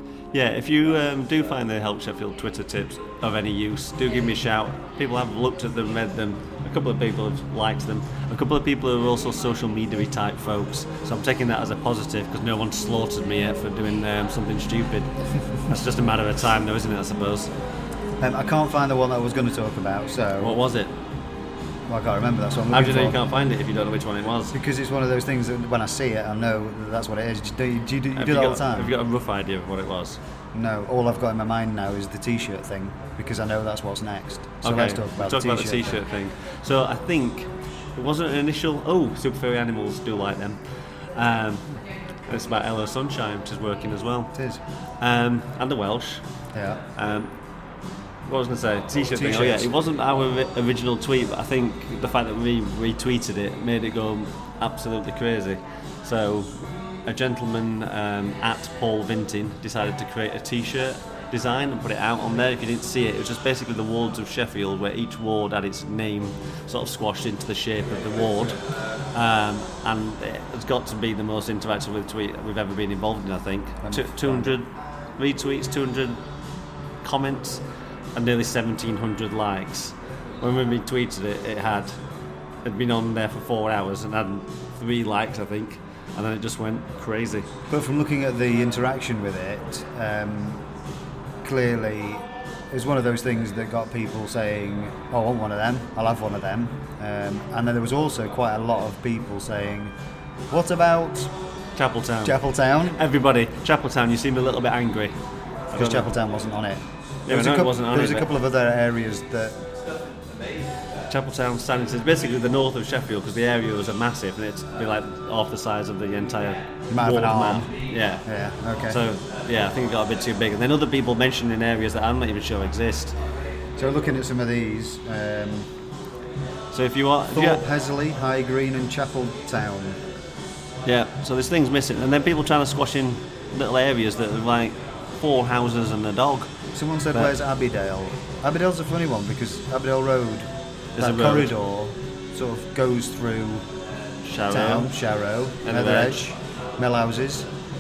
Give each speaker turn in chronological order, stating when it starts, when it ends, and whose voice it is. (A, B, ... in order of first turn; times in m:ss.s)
0:00.3-0:17.5 A
0:18.2-0:20.6 B
0:20.4-0:20.9 A
0:21.9-0:23.2 B
0:22.7-0:24.6 A
0:24.5-0:28.9 B
0:28.2-0:30.2 A
0:30.5-0:36.0 B
0:34.6-0:46.2 A
0:44.4-0:44.6 B
0:46.5-0:46.8 B
0:47.0-0:47.3 A
0:48.2-1:16.2 A
0:49.1-0:49.7 B
1:13.8-1:14.6 B
1:17.0-1:17.6 A
1:18.2-1:22.0 A
1:22.6-1:27.5 A
1:27.7-1:30.6 B
1:31.4-1:40.0 B
1:40.5-1:41.3 B
1:41.8-1:45.2 A
1:42.2-1:43.0 B
1:45.7-1:46.1 A
1:45.7-1:49.6 B
1:47.3-1:48.3 A
1:51.1-1:58.3 A
1:56.9-1:59.0 B
1:58.9-2:03.2 A
2:03.8-2:05.7 B
2:06.7-2:07.6 A
2:07.3-2:10.0 B
2:10.9-2:16.5 A
2:16.8-2:23.7 B
2:21.0-2:21.5 A
2:24.2-2:24.9 A
2:24.5-2:27.5 B
2:25.6-2:26.2 A